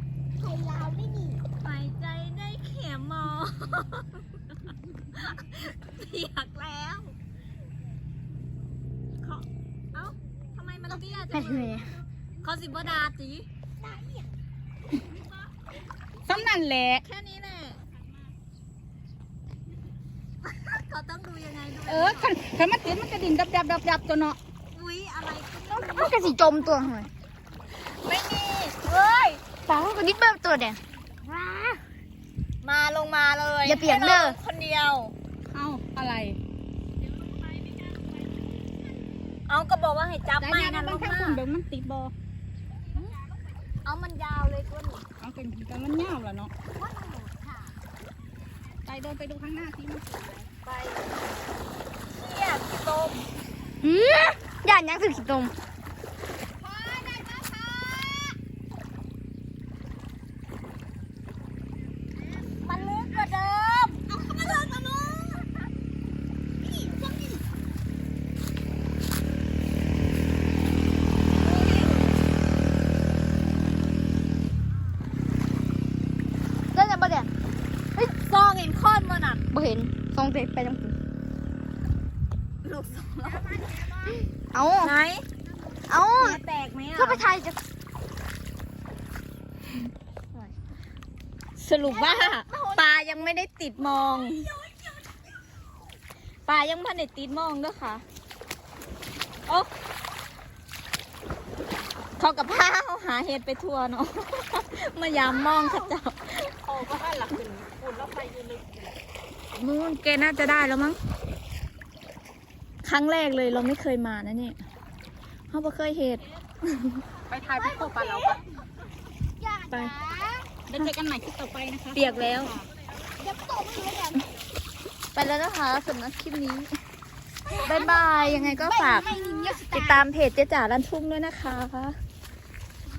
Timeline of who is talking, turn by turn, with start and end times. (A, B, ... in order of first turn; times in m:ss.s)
0:00.4-0:01.4 A
0:01.6-0:04.2 B
0:05.1-0:07.2 B
0:09.2-0:13.5 B
0:11.3-0:12.0 A
0:13.8-0:14.3 A
0:16.2-0:17.0 C
0:17.0-0:17.8 B
0:20.4-0:22.4 B
0:21.9-0:24.4 C
0:24.7-0:26.8 B
0:25.9-0:27.1 A
0:27.8-0:29.4 B
0:29.6-0:31.8 A
0:32.6-0:35.1 B
0:33.6-0:34.4 A
0:35.5-0:36.4 C
0:39.5-0:41.4 B
0:40.4-0:42.1 C
0:43.8-0:45.0 B
0:45.2-0:46.5 C
0:46.8-0:47.6 A
0:48.8-0:51.0 C
0:52.1-0:53.3 B
0:53.8-0:55.5 A
0:56.6-0:58.3 B
1:02.6-1:04.7 B
1:04.3-1:05.1 A
1:06.8-1:07.2 C
1:11.3-1:12.2 B
1:16.7-1:17.3 A
1:17.9-1:19.4 B
1:19.5-1:20.9 A
1:22.6-1:23.6 B
1:23.5-1:24.9 A
1:24.8-1:25.2 B
1:25.9-1:26.4 A
1:26.2-1:27.2 B
1:26.9-1:27.6 A
1:31.6-1:34.5 B
1:31.9-1:33.4 A
1:34.0-1:34.4 A
1:36.4-1:38.0 B
1:42.2-1:46.5 B
1:45.4-1:45.9 C
1:46.6-1:48.9 C
1:49.5-1:51.0 B
1:52.8-1:54.6 B
1:55.5-1:57.0 B
1:57.3-1:58.4 C
1:57.5-1:58.4 A
1:59.4-2:00.5 A
2:00.7-2:02.7 C
2:01.9-2:02.5 B
2:03.2-2:04.3 A
2:05.1-2:06.8 B
2:07.5-2:10.0 A
2:07.6-2:12.0 B